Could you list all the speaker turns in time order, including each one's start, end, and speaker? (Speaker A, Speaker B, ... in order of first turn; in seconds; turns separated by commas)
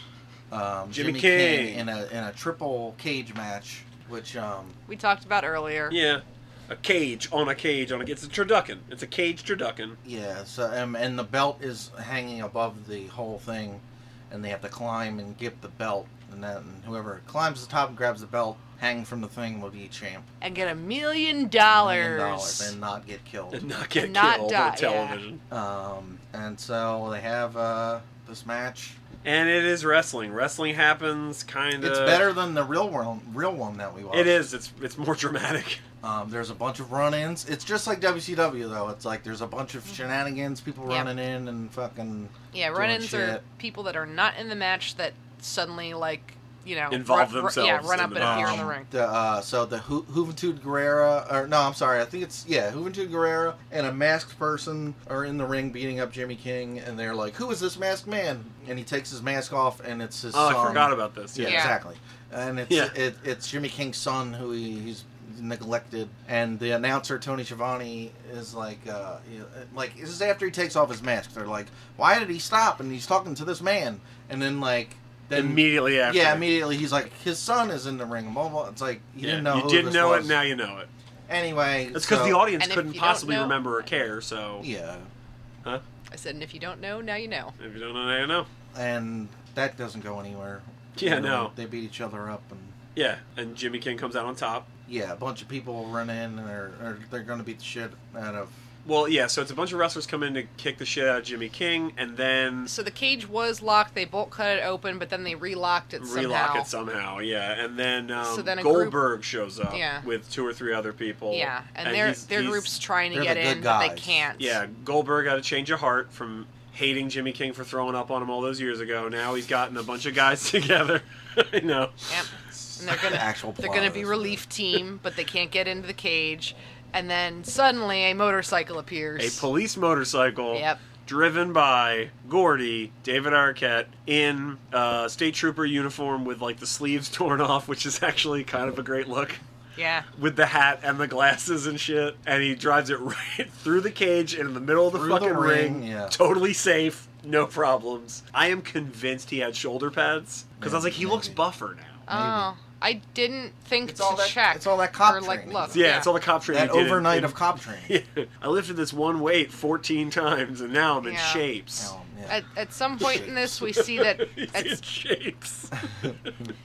Speaker A: 0.5-4.8, Speaker B: 0.9-1.9, Speaker C: 4.9-6.0, Speaker B: 5.9-10.0, Speaker A: 10.0-20.3, Speaker C: 20.4-22.7, Speaker A: 21.7-23.6, Speaker B: 23.5-25.4, Speaker C: 23.9-25.2, Speaker A: 25.5-29.0, Speaker B: 29.2-32.3, Speaker A: 31.8-34.4, Speaker B: 34.1-35.8, Speaker A: 36.0-43.4, Speaker C: 42.5-48.9, Speaker B: 46.9-48.7, Speaker A: 48.1-80.4, Speaker B: 60.3-61.7, Speaker C: 61.4-61.7, Speaker B: 62.7-62.9, Speaker B: 75.3-76.5, Speaker B: 79.2-80.9, Speaker A: 81.3-82.5, Speaker B: 81.9-84.7, Speaker C: 82.6-83.8, Speaker A: 84.6-85.1, Speaker C: 86.1-87.5, Speaker B: 87.6-88.5, Speaker A: 88.7-92.8, Speaker B: 91.0-91.5, Speaker B: 92.9-94.7, Speaker A: 94.9-98.5, Speaker B: 98.8-102.7, Speaker C: 102.7-106.7, Speaker B: 106.0-112.7, Speaker C: 108.2-109.0, Speaker C: 109.7-110.0, Speaker C: 111.3-114.6, Speaker A: 113.1-114.2, Speaker B: 114.4-122.1, Speaker C: 122.1-129.4, Speaker A: 122.5-124.4, Speaker B: 129.2-139.4, Speaker C: 130.5-130.8, Speaker C: 139.8-140.1, Speaker B: 140.1-152.1, Speaker A: 144.9-146.2, Speaker A: 150.6-151.4, Speaker A: 152.1-152.5, Speaker C: 152.1-156.1, Speaker A: 153.8-157.9, Speaker B: 155.7-161.9, Speaker C: 161.0-161.4, Speaker A: 161.8-162.4, Speaker C: 162.3-164.8, Speaker A: 163.0-163.6, Speaker B: 163.6-166.3, Speaker A: 165.8-166.5